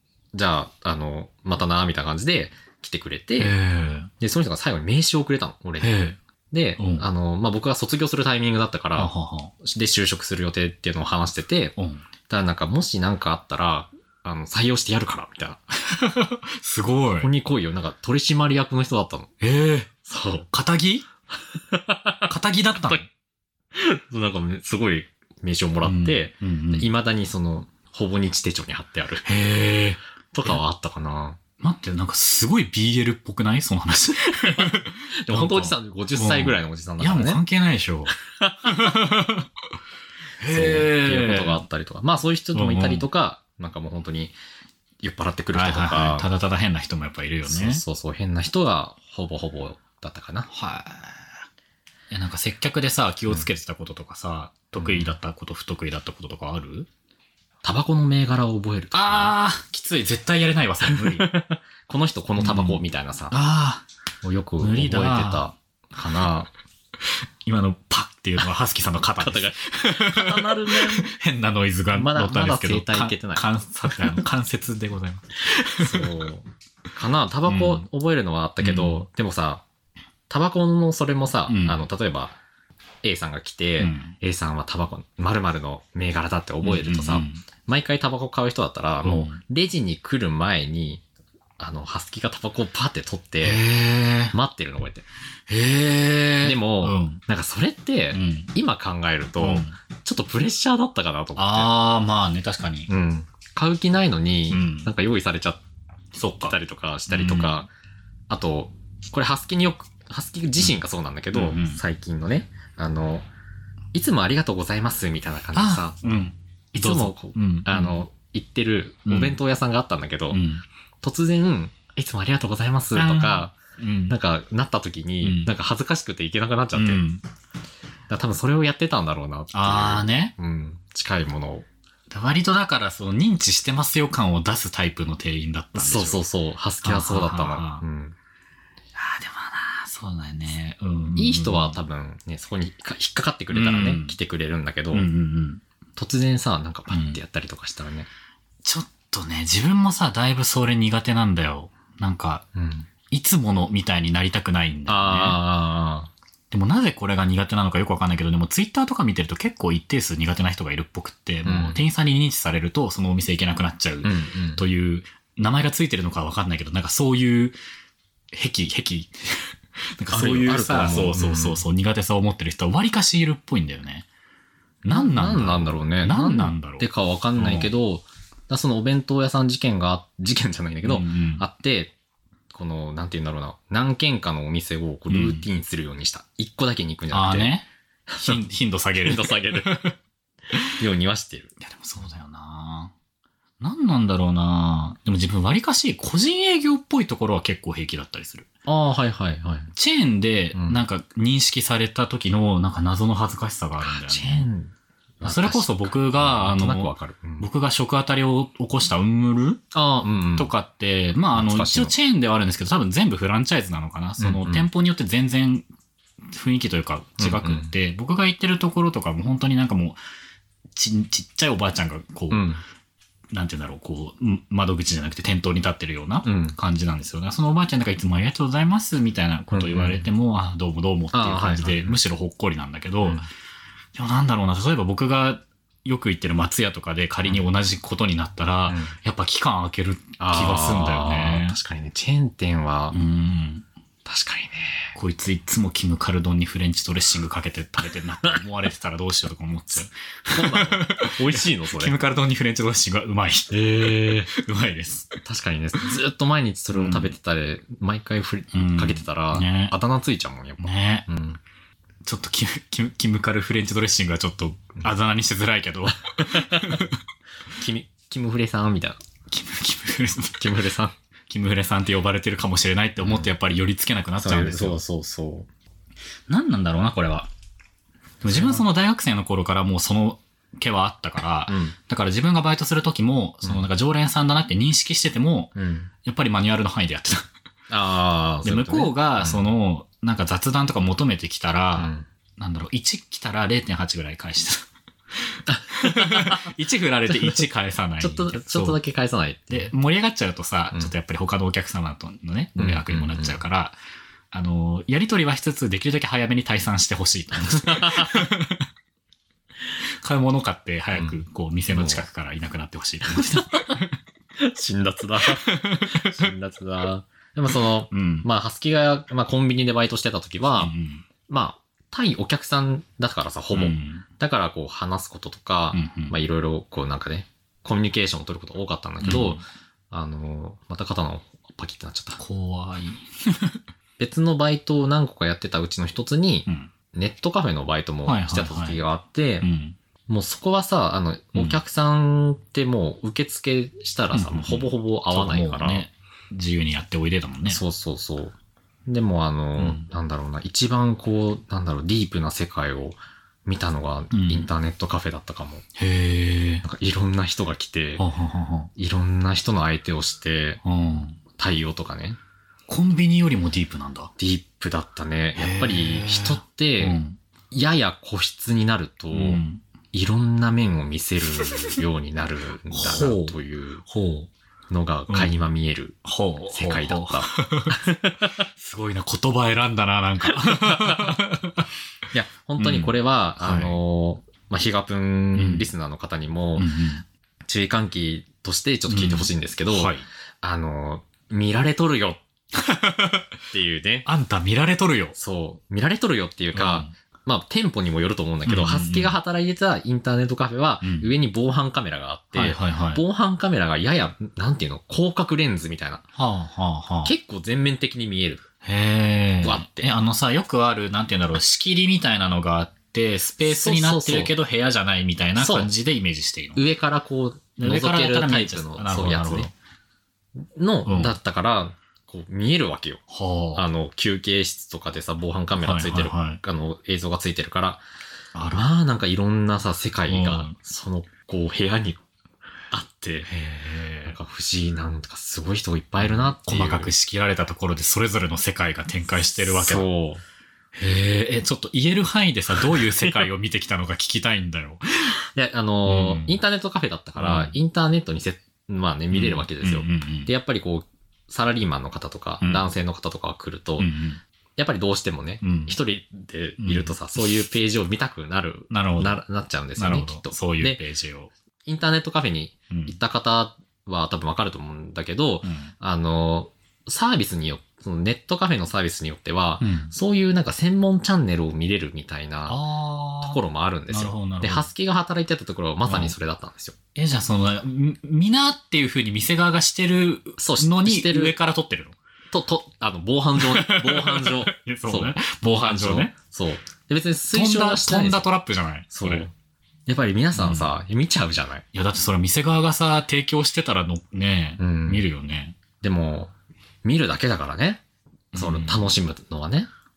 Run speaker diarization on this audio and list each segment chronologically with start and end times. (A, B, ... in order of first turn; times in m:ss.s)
0:00.3-0:03.5 A
0:03.4-0:04.1 B
0:04.2-0:06.0 A
0:05.8-0:06.2 B
0:06.5-0:11.7 A
0:06.8-0:07.1 B
0:09.0-0:09.5 B
0:11.8-0:12.0 B
0:12.3-0:15.6 A
0:15.8-0:17.3 B
0:17.2-0:19.3 A
0:19.4-0:19.9 B
0:20.0-0:20.5 A
0:20.5-0:21.1 B
0:21.5-0:23.0 A
0:22.3-0:23.1 B
0:23.7-0:29.3 A
0:25.8-0:26.9 B
0:29.2-0:30.6 B
0:30.3-0:31.4 A
0:31.6-0:39.5 B
0:34.4-0:37.4 A
0:38.4-0:39.0 A
0:40.4-0:41.6 B
0:40.5-0:44.3 A
0:42.5-0:43.1 B
0:45.0-0:46.3 A
0:45.5-0:47.8 B
0:47.4-0:50.5 A
0:50.5-0:51.3 B
0:52.1-0:56.9 B
0:54.8-0:55.2 A
0:57.6-0:59.3 A
0:58.9-1:01.3 B
1:00.8-1:03.4 A
1:02.4-1:03.8 B
1:04.2-1:06.5 A
1:04.6-1:05.5 B
1:07.4-1:16.1 B
1:09.2-1:11.1 A
1:11.9-1:14.2 A
1:15.8-1:19.6 A
1:17.5-1:17.8 B
1:18.6-1:19.0 B
1:20.3-1:22.4 A
1:21.5-1:21.8 B
1:23.0-1:31.0 A
1:23.8-1:24.1 B
1:26.6-1:27.4 B
1:29.0-1:29.4 B
1:31.6-1:33.6 A
1:33.4-1:34.3 B
1:34.3-1:35.0 A
1:35.5-1:37.2 B
1:36.4-1:41.7 A
1:38.1-1:38.5 B
1:39.4-1:39.8 B
1:41.4-1:42.9 B
1:42.9-1:45.6 A
1:44.5-1:44.9 B
1:46.1-1:46.6 B
1:46.4-1:47.7 A
1:47.1-1:47.6 B
1:48.3-1:53.3 A
1:51.3-1:51.8 B
1:53.9-1:56.1 A
1:55.5-1:58.0 B
1:56.7-2:00.4 A
1:59.0-1:59.4 B
2:00.3-2:00.6 B
2:01.0-2:03.6 A
2:02.9-2:04.2 B
2:04.1-2:07.0 A
2:05.2-2:05.5 B
2:06.7-2:07.2 B
2:08.1-2:11.7 A
2:09.5-2:10.3 B
2:12.1-2:16.2 B
2:15.7-2:18.2 A
2:16.8-2:17.8 B
2:18.9-2:21.8 B
2:21.2-2:25.1 A
2:23.5-2:24.2 B
2:24.9-2:25.6 B
2:26.0-2:28.1 A
2:26.9-2:27.2 B
2:28.6-2:32.4 B
2:32.5-2:32.9 A
2:33.1-2:35.4 B
2:34.9-2:36.1 A
2:36.5-2:47.6 B
2:41.4-2:41.8 A
2:44.0-2:44.6 A
2:48.3-2:54.0 B
2:50.1-2:51.6 A
2:54.8-2:57.7 B
2:54.9-3:01.9 A
3:00.8-3:01.4 B
3:02.5-3:07.5 A
3:05.1-3:05.4 B
3:07.1-3:07.6 B
3:08.1-3:08.4 A
3:08.2-3:09.9 B
3:09.0-3:09.7 A
3:10.8-3:11.5 A
3:11.6-3:12.9 B
3:13.6-3:18.5 B
3:18.6-3:19.7 A
3:19.7-3:24.5 B
3:20.5-3:20.8 A
3:23.8-3:27.5 A
3:25.2-3:29.6 B
3:29.7-3:30.5 A
3:30.4-3:35.6 B
3:31.3-3:31.9 A
3:34.2-3:34.7 A
3:36.3-3:40.0 B
3:37.2-3:37.7 A
3:40.7-3:42.5 B
3:42.3-3:42.6 A
3:43.3-3:53.3 B
3:46.2-3:46.6 A
3:49.5-3:50.1 A
3:51.1-3:52.0 A
3:53.9-4:01.6 B
3:58.7-3:58.9 A
4:00.2-4:03.0 A
4:02.9-4:03.6 B
4:04.0-4:04.9 A
4:04.9-4:15.2 B
4:10.3-4:12.0 A
4:13.5-4:14.3 A
4:15.2-4:21.4 A
4:16.7-4:17.1 B
4:18.5-4:19.8 B
4:20.6-4:21.1 B
4:22.0-4:27.0 B
4:26.2-4:26.8 A
4:27.6-4:29.0 A
4:29.3-4:30.6 B
4:30.4-4:30.9 A
4:31.3-4:34.8 B
4:33.0-4:33.3 A
4:34.2-4:35.5 A
4:36.3-4:37.3 B
4:38.2-4:47.3 B
4:38.2-4:38.6 A
4:41.5-4:41.7 A
4:45.6-4:45.9 A
4:47.7-4:49.5 A
4:48.4-4:58.8 B
4:51.8-4:52.1 A
4:55.5-4:56.5 A
4:57.1-4:57.4 A
4:58.0-4:59.7 A
4:59.5-5:03.8 B
5:02.6-5:03.4 A
5:04.3-5:08.6 B
5:07.4-5:08.3 A
5:10.0-5:13.9 B
5:10.9-5:12.0 A
5:13.0-5:13.8 A
5:14.3-5:20.7 A
5:15.2-5:16.3 B
5:17.9-5:18.3 B
5:20.6-5:21.0 B
5:21.3-5:29.4 A
5:23.5-5:24.0 B
5:25.7-5:26.2 B
5:29.0-5:29.4 B
5:29.9-5:32.2 A
5:32.2-5:33.6 B
5:34.0-5:39.4 A
5:36.4-5:36.7 B
5:38.0-5:38.8 B
5:39.4-5:39.8 B
5:40.1-5:45.8 A
5:44.1-5:47.6 B
5:47.4-5:55.6 A
5:49.6-5:49.9 B
5:54.1-5:54.5 B
5:55.8-5:56.6 B
5:56.6-5:58.0 A
5:58.0-5:58.7 B
5:58.8-6:00.6 A
6:00.6-6:01.2 B
6:01.4-6:02.2 A
6:02.7-6:04.1 B
6:04.2-6:07.0 A
6:05.4-6:07.2 B
6:07.5-6:09.4 A
6:09.1-6:09.6 B
6:09.9-6:13.8 A
6:11.3-6:11.8 B
6:12.7-6:14.3 B
6:14.7-6:16.0 A
6:15.1-6:15.4 B
6:16.0-6:17.8 B
6:16.5-6:18.4 A
6:18.5-6:21.7 B
6:20.2-6:21.2 A
6:22.1-6:26.7 A
6:22.6-6:23.8 B
6:25.3-6:25.7 B
6:26.6-6:27.0 B
6:27.4-6:32.2 A
6:28.9-6:30.0 B
6:32.5-6:33.3 B
6:33.5-6:34.1 A
6:34.0-6:35.2 B
6:35.2-6:46.0 A
6:36.5-6:36.9 B
6:38.4-6:39.1 B
6:40.8-6:41.1 B
6:42.3-6:43.0 B
6:46.1-6:47.1 B
6:47.0-6:48.5 A
6:48.6-6:56.6 B
6:49.4-6:49.9 A
6:53.4-6:54.3 A
6:55.4-6:55.7 A
6:56.6-6:59.5 A
6:57.6-6:59.5 B
7:00.4-7:03.0 A
7:00.8-7:01.2 B
7:03.1-7:03.7 B
7:03.5-7:07.8 A
7:05.6-7:06.4 B
7:08.3-7:08.7 B
7:08.5-7:12.0 A
7:10.1-7:10.6 B
7:12.7-7:13.3 A
7:13.2-7:14.2 B
7:14.0-7:16.9 A
7:16.0-7:19.9 B
7:19.4-7:20.2 A
7:20.8-7:25.2 B
7:22.6-7:23.3 A
7:25.3-7:33.9 A
7:25.8-7:26.4 B
7:27.2-7:27.6 B
7:29.1-7:30.3 B
7:32.4-7:32.7 B
7:33.8-7:34.2 B
7:34.6-7:40.8 A
7:35.4-7:35.8 B
7:36.6-7:36.9 B
7:38.7-7:39.2 B
7:39.8-7:41.3 B
7:41.6-7:52.6 A
7:42.7-7:42.9 B
7:45.4-7:45.7 B
7:49.6-7:49.9 B
7:52.5-7:54.7 B
7:53.2-7:56.8 A
7:55.8-7:56.1 B
7:56.9-8:02.0 B
8:00.4-8:01.4 A
8:02.3-8:08.2 A
8:03.4-8:06.1 B
8:07.3-8:09.3 B
8:08.9-8:09.3 A
8:09.8-8:11.6 A
8:10.3-8:10.7 B
8:11.7-8:15.6 B
8:14.6-8:15.0 A
8:15.8-8:16.3 A
8:16.8-8:17.8 A
8:18.3-8:18.9 B
8:18.3-8:19.7 A